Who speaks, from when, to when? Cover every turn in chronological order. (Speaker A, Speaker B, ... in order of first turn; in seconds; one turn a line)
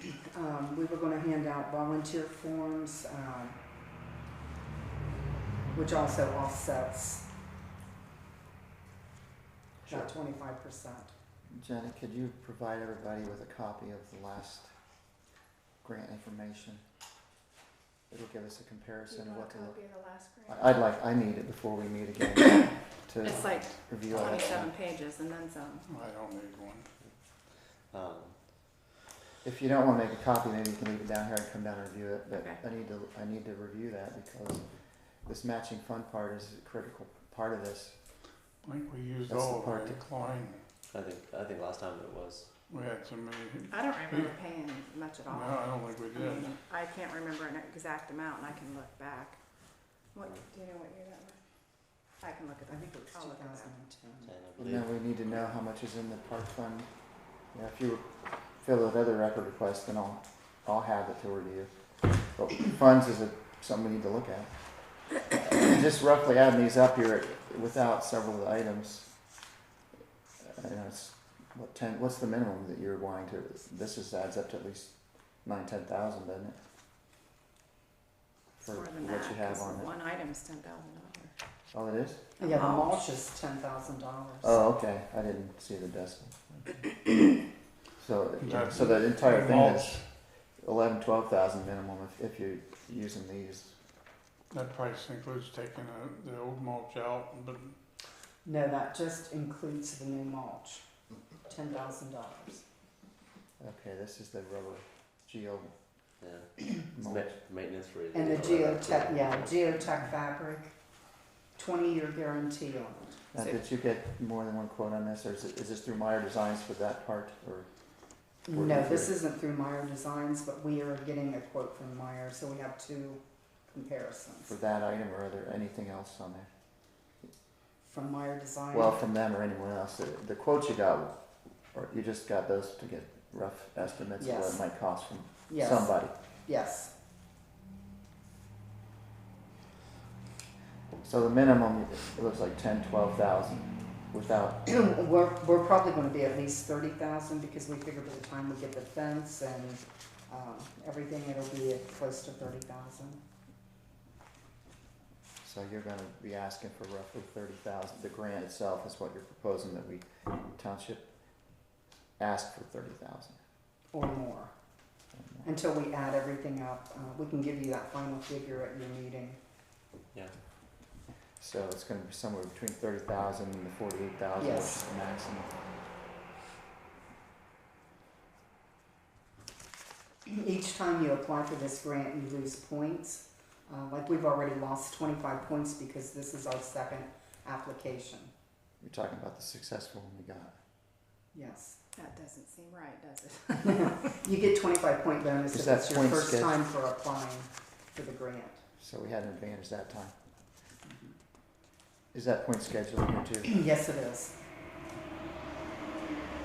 Speaker A: 0.2-3.6
Speaker A: 5.7-7.3
Speaker B: 9.8-10.1
Speaker A: 9.9-11.1
Speaker B: 11.5-14.8
Speaker B: 15.8-16.8
Speaker B: 18.1-19.8
Speaker C: 19.1-20.8
Speaker B: 20.5-24.7
Speaker C: 23.2-25.9
Speaker D: 25.8-26.9
Speaker E: 27.9-28.4
Speaker B: 29.4-38.0
Speaker C: 32.3-32.6
Speaker D: 38.6-40.7
Speaker B: 39.3-40.0
Speaker E: 40.9-42.5
Speaker D: 42.7-44.4
Speaker C: 43.7-49.4
Speaker D: 45.3-46.6
Speaker C: 50.1-51.4
Speaker C: 52.2-53.7
Speaker A: 52.7-54.3
Speaker E: 54.2-55.1
Speaker B: 54.6-56.9
Speaker B: 57.5-64.5
Speaker B: 65.3-69.1
Speaker B: 70.4-76.6
Speaker C: 78.6-81.3
Speaker B: 78.6-79.9
Speaker B: 81.7-82.2
Speaker C: 82.4-83.1
Speaker A: 82.4-84.6
Speaker B: 84.4-87.2
Speaker B: 88.0-93.8
Speaker D: 88.4-90.1
Speaker D: 94.5-97.8
Speaker A: 98.4-100.8
Speaker A: 101.4-102.7
Speaker B: 103.6-105.7
Speaker E: 106.2-110.1
Speaker B: 106.9-107.3
Speaker A: 108.1-110.8
Speaker A: 111.6-113.2
Speaker B: 113.3-119.2
Speaker A: 118.5-124.5
Speaker B: 124.5-126.5
Speaker A: 127.8-129.0
Speaker B: 128.7-131.2
Speaker B: 131.7-136.1
Speaker A: 134.2-134.6
Speaker A: 135.5-136.9
Speaker B: 141.0-144.6
Speaker A: 144.7-153.2
Speaker B: 155.4-161.1
Speaker B: 162.2-163.4
Speaker A: 163.9-164.6
Speaker B: 165.1-165.5
Speaker A: 165.4-169.4
Speaker B: 171.4-175.6
Speaker A: 174.4-174.8
Speaker A: 180.3-188.3
Speaker B: 188.8-190.6
Speaker A: 191.3-191.8
Speaker C: 192.0-194.2
Speaker A: 193.8-198.6
Speaker B: 195.5-196.6
Speaker B: 198.8-200.2
Speaker A: 200.8-201.2
Speaker B: 202.1-203.6
Speaker A: 203.5-204.3